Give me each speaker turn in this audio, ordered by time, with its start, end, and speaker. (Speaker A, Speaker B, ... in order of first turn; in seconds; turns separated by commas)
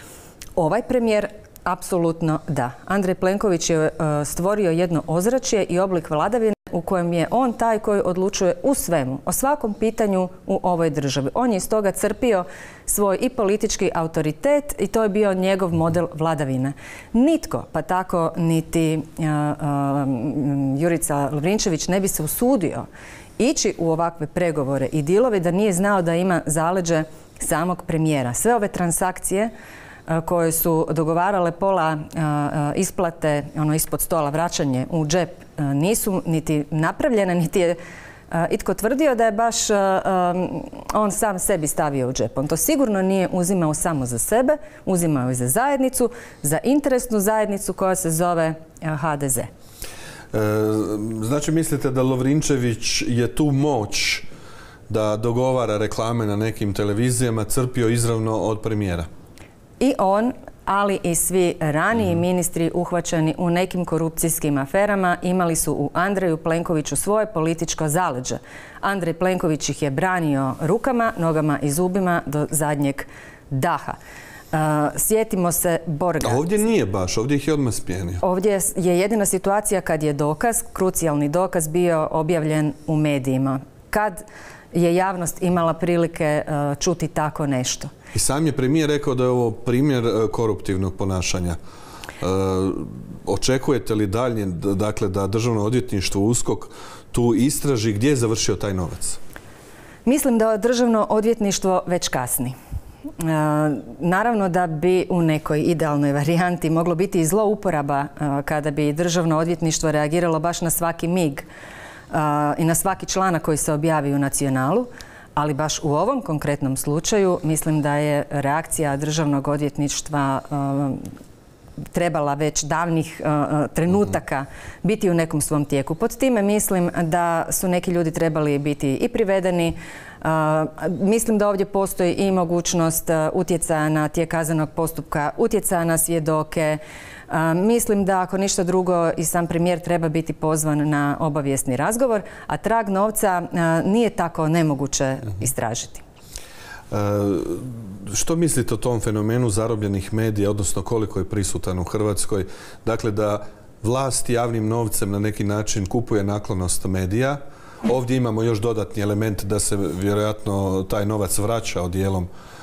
Speaker A: 0.6-22.9, Speaker A: 23.4-29.5, Speaker A: 30.1-37.8, Speaker A: 38.3-49.5, Speaker B: 50.3-54.2, Speaker B: 54.9-59.1, Speaker A: 59.8-74.0, Speaker A: 74.5-76.4, Speaker B: 76.2-78.2, Speaker A: 78.2-87.9, Speaker B: 88.1-91.6, Speaker B: 92.2-99.2, Speaker A: 100.0-102.5, Speaker A: 103.2-111.5, Speaker A: 112.1-121.1, Speaker A: 121.9-146.0, Speaker B: 146.9-162.3